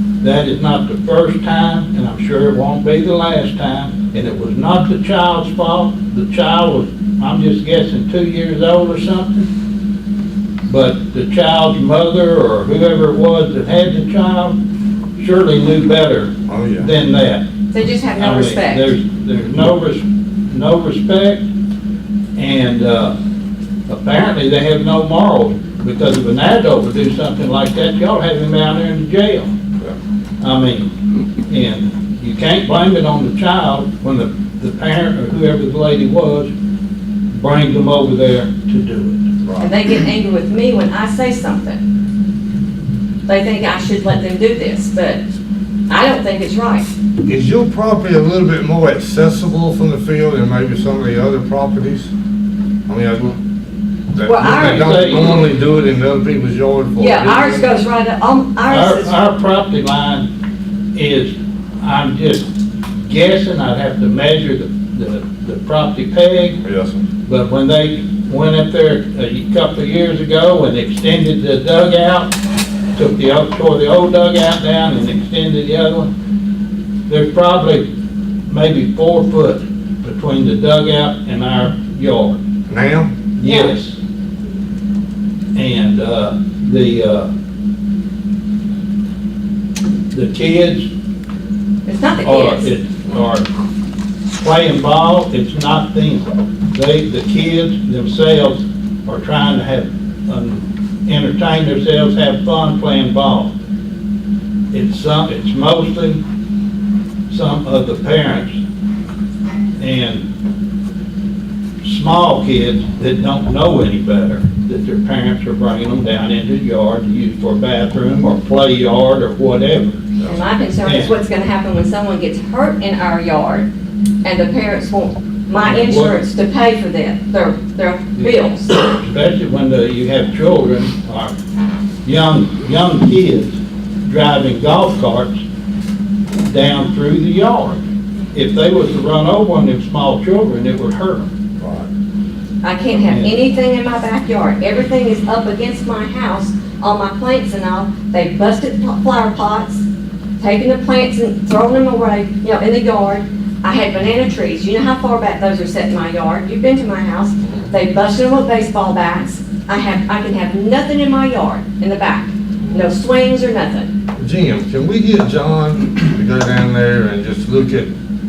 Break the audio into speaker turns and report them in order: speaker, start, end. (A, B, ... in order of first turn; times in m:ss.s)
0:00.2-0:09.5 A
0:10.7-0:14.6 A
0:15.2-0:17.4 A
0:16.5-0:16.9 B
0:17.7-0:18.9 C
0:18.2-0:21.4 A
0:22.4-0:23.2 A
0:23.9-0:29.5 A
0:30.4-0:30.9 A
0:31.5-0:36.5 A
0:37.3-0:39.2 A
0:39.4-0:39.7 B
0:39.6-0:41.8 C
0:43.3-0:45.2 C
0:45.9-0:46.9 C
0:47.2-0:52.1 B
0:52.9-0:53.4 B
0:54.1-0:57.7 B
0:54.2-0:54.9 C
0:54.4-0:55.4 A
0:57.0-0:59.1 C
0:58.7-1:00.3 A
1:00.9-1:02.5 A
1:03.1-1:06.6 A
1:06.6-1:07.0 B
1:07.3-1:12.3 A
1:13.0-1:16.1 A
1:17.1-1:17.9 A
1:18.5-1:22.4 A
1:22.7-1:23.1 B
1:23.4-1:24.0 A
1:23.4-1:23.7 C
1:25.6-1:27.3 A
1:30.1-1:30.9 A
1:31.9-1:32.7 C
1:32.2-1:33.5 A
1:34.4-1:43.5 A
1:44.7-1:46.2 A
1:47.3-1:48.6 A
1:49.8-1:50.3 A
1:51.8-2:00.0 A
2:00.2-2:03.7 C
2:00.8-2:01.2 A
2:04.2-2:08.7 C
2:05.6-2:06.2 A
2:08.9-2:11.3 A
2:12.0-2:15.4 A
2:16.5-2:17.8 A
2:18.3-2:21.3 A
2:21.6-2:21.9 B
2:22.6-2:29.8 C
2:23.1-2:23.3 A
2:30.4-2:43.9 C
2:37.4-2:37.7 B
2:44.2-2:47.9 B